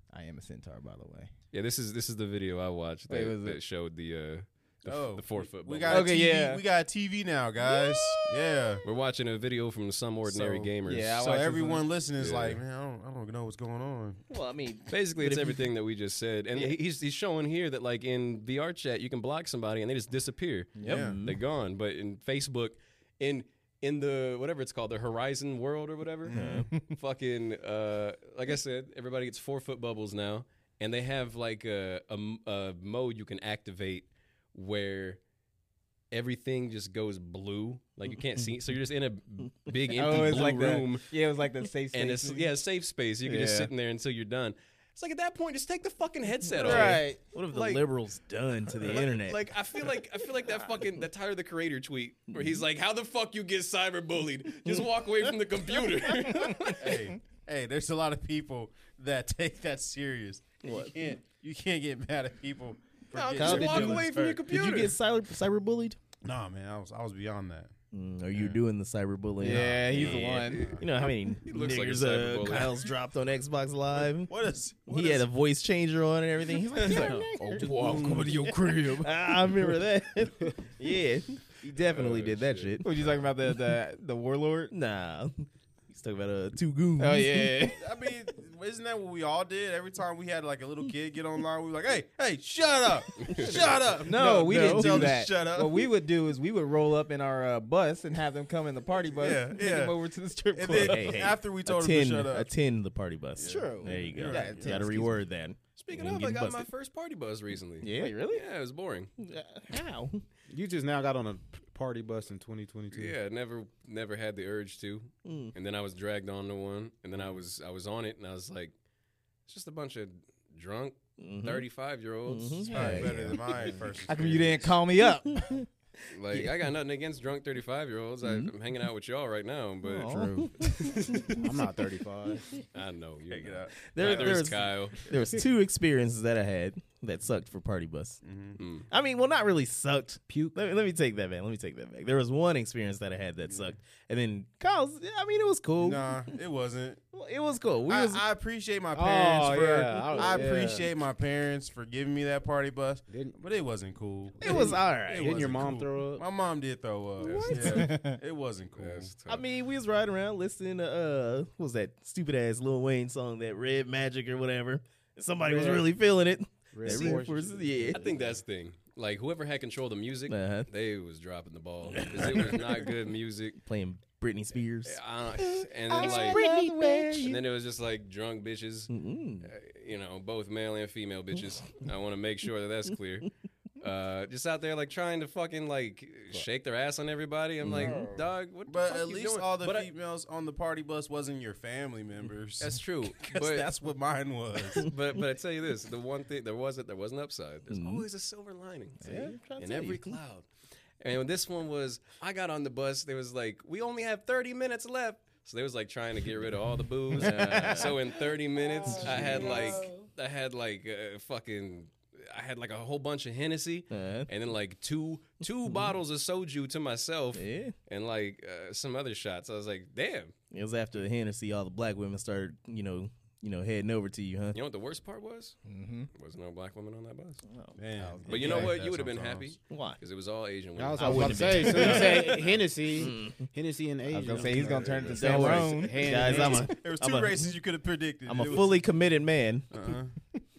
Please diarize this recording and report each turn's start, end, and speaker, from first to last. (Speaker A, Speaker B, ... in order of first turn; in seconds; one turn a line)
Speaker A: 0.1-1.3
Speaker B: 1.5-6.1
Speaker A: 3.1-3.6
Speaker C: 4.9-8.8
Speaker A: 5.9-6.6
Speaker B: 8.8-11.4
Speaker C: 10.2-14.2
Speaker A: 10.8-11.8
Speaker B: 12.2-12.6
Speaker D: 14.3-15.6
Speaker B: 14.9-35.2
Speaker A: 20.8-21.1
Speaker C: 20.8-21.2
Speaker D: 20.8-21.4
Speaker C: 26.2-26.7
Speaker A: 26.3-26.9
Speaker B: 36.1-41.0
Speaker A: 39.9-42.5
Speaker B: 41.9-47.8
Speaker A: 43.2-43.7
Speaker D: 46.5-49.9
Speaker A: 46.6-47.2
Speaker B: 48.8-57.0
Speaker D: 52.3-52.6
Speaker D: 56.0-56.8
Speaker C: 56.8-64.4
Speaker D: 60.6-60.9
Speaker B: 63.1-65.0
Speaker D: 63.4-66.0
Speaker C: 66.2-67.7
Speaker D: 67.9-74.3
Speaker C: 68.3-68.6
Speaker A: 69.4-70.7
Speaker C: 69.6-70.8
Speaker B: 69.9-72.9
Speaker C: 74.3-75.3
Speaker D: 74.9-83.0
Speaker B: 76.8-78.2
Speaker E: 76.8-78.7
Speaker A: 76.9-77.6
Speaker C: 77.6-78.5
Speaker B: 81.8-83.1
Speaker A: 82.8-84.7
Speaker D: 84.7-87.6
Speaker A: 87.0-87.8
Speaker C: 87.7-95.9
Speaker B: 93.2-93.7
Speaker D: 93.3-95.1
Speaker A: 94.0-101.2
Speaker C: 99.1-100.0
Speaker C: 100.5-102.5
Speaker D: 100.7-106.7
Speaker C: 103.3-104.8
Speaker A: 103.4-105.2
Speaker B: 105.8-109.1
Speaker D: 107.8-108.2
Speaker A: 107.9-108.4
Speaker D: 109.2-110.2
Speaker E: 110.5-113.1
Speaker B: 112.9-118.7
Speaker D: 115.2-115.5
Speaker B: 119.5-123.1
Speaker D: 121.2-121.6
Speaker D: 122.3-123.3
Speaker A: 122.7-123.0
Speaker C: 122.7-124.8
Speaker E: 122.8-123.8
Speaker A: 124.1-125.6
Speaker D: 125.3-125.7
Speaker B: 126.1-131.4
Speaker D: 128.2-128.5
Speaker D: 129.8-131.5
Speaker A: 130.1-131.1
Speaker E: 131.4-132.5
Speaker B: 132.7-135.0
Speaker C: 133.3-134.5
Speaker D: 133.8-138.2
Speaker C: 138.2-138.6
Speaker B: 138.6-138.9
Speaker D: 138.9-146.2
Speaker E: 140.3-140.5
Speaker C: 143.5-143.8
Speaker C: 145.8-147.0
Speaker D: 147.1-148.2
Speaker C: 147.9-159.1
Speaker E: 148.9-150.9
Speaker E: 153.1-153.4
Speaker D: 154.4-155.5
Speaker E: 154.4-156.2
Speaker B: 157.2-158.1
Speaker A: 157.4-158.2
Speaker B: 158.7-159.4
Speaker D: 159.3-168.1
Speaker E: 165.4-165.9
Speaker E: 166.7-168.3
Speaker B: 166.9-167.1
Speaker B: 167.9-173.6
Speaker D: 170.3-170.7
Speaker D: 171.9-172.6
Speaker C: 172.2-172.6
Speaker D: 173.6-177.4
Speaker B: 174.8-176.4
Speaker A: 175.9-177.4
Speaker B: 177.2-189.9
Speaker D: 178.9-179.5
Speaker D: 187.6-188.1
Speaker E: 187.8-188.2
Speaker C: 188.7-192.8
Speaker B: 192.6-193.7
Speaker D: 193.2-193.8
Speaker C: 193.7-194.9
Speaker B: 194.7-199.0
Speaker D: 197.7-198.0
Speaker D: 199.0-200.2
Speaker A: 199.0-199.3
Speaker B: 199.6-200.4
Speaker B: 201.0-220.3
Speaker D: 207.1-208.2
Speaker A: 207.2-207.9
Speaker A: 208.8-210.0
Speaker D: 208.8-210.0
Speaker D: 213.9-214.3
Speaker D: 217.3-217.7
Speaker D: 220.5-224.6
Speaker B: 224.5-225.6
Speaker A: 225.7-226.1
Speaker B: 226.1-227.4
Speaker D: 227.5-227.8
Speaker C: 227.8-229.6
Speaker A: 227.9-228.8
Speaker B: 228.3-232.4
Speaker D: 229.6-230.0
Speaker E: 230.8-236.7
Speaker D: 231.0-233.4
Speaker A: 234.1-236.4
Speaker B: 234.5-235.4
Speaker D: 235.1-237.5
Speaker C: 236.2-238.9
Speaker D: 238.2-239.7
Speaker C: 239.7-240.1